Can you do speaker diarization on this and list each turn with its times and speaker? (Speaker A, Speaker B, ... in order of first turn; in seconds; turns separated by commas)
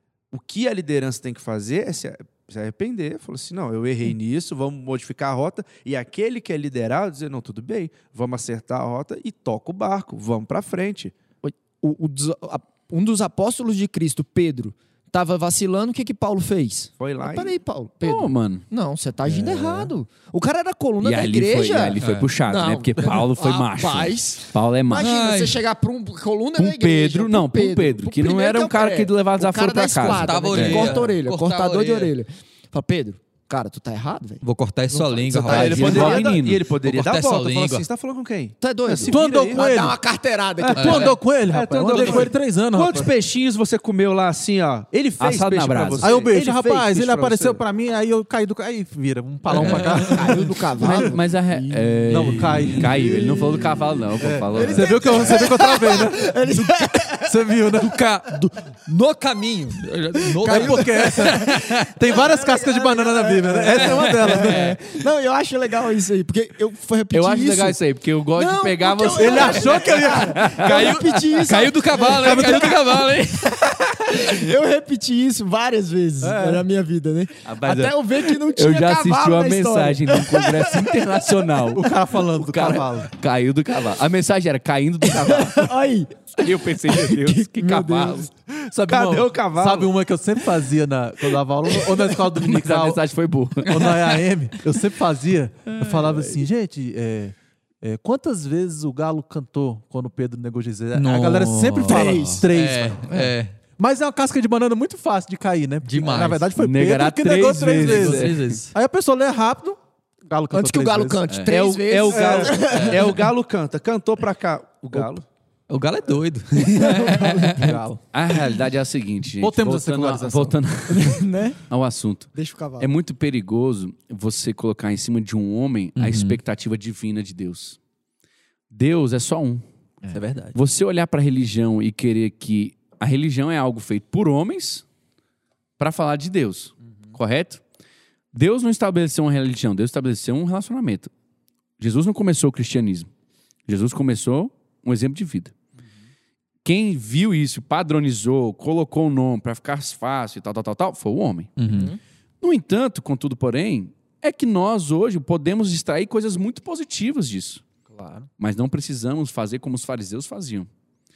Speaker A: 0.3-11.1, Speaker B: 11.4-36.3, Speaker A: 17.0-17.6, Speaker C: 18.0-18.6, Speaker D: 19.3-19.9, Speaker C: 21.0-25.2, Speaker E: 22.0-22.3, Speaker E: 25.0-25.6, Speaker C: 26.6-31.0, Speaker E: 30.0-32.1, Speaker E: 34.4-36.3, Speaker A: 35.4-39.8, Speaker C: 35.5-36.6, Speaker E: 36.8-37.9, Speaker B: 38.6-41.2, Speaker D: 39.1-40.0, Speaker A: 40.6-47.6, Speaker E: 40.8-41.1, Speaker D: 40.8-43.1, Speaker B: 41.9-42.3, Speaker C: 45.2-46.2, Speaker D: 46.0-51.1, Speaker E: 49.5-50.4, Speaker B: 49.6-53.8, Speaker C: 50.8-55.3, Speaker D: 52.1-58.0, Speaker E: 52.4-52.9, Speaker B: 54.5-57.4, Speaker E: 57.7-61.9, Speaker B: 59.7-67.8, Speaker D: 60.5-64.8, Speaker E: 63.7-64.8, Speaker C: 67.1-73.6, Speaker B: 68.3-73.0, Speaker D: 69.0-71.0, Speaker E: 71.9-73.0, Speaker D: 72.1-72.8, Speaker B: 73.6-81.3, Speaker D: 76.2-76.7, Speaker C: 77.5-85.7, Speaker D: 81.7-83.1, Speaker B: 85.1-88.3, Speaker C: 86.4-88.3, Speaker D: 88.5-93.0, Speaker A: 88.9-89.9, Speaker C: 92.4-93.9, Speaker D: 93.7-111.2, Speaker E: 93.7-94.0, Speaker E: 101.0-103.6, Speaker B: 101.9-102.5, Speaker E: 105.8-106.5, Speaker C: 106.6-108.6, Speaker E: 107.7-108.7, Speaker B: 110.5-113.2, Speaker A: 111.5-115.2, Speaker D: 112.0-112.7, Speaker E: 115.7-117.9, Speaker B: 116.7-117.7, Speaker D: 117.0-118.0, Speaker C: 118.1-127.8, Speaker D: 119.4-120.6, Speaker B: 120.9-121.6, Speaker B: 122.3-122.9, Speaker E: 126.0-126.4, Speaker C: 128.7-129.6, Speaker D: 130.1-130.6, Speaker C: 130.5-134.8, Speaker C: 135.8-137.6, Speaker C: 138.3-141.1, Speaker C: 141.8-143.1, Speaker C: 143.7-145.5, Speaker C: 146.6-151.5, Speaker E: 151.6-151.9, Speaker B: 151.7-152.0, Speaker C: 152.4-157.6, Speaker D: 157.9-158.3, Speaker C: 158.4-160.7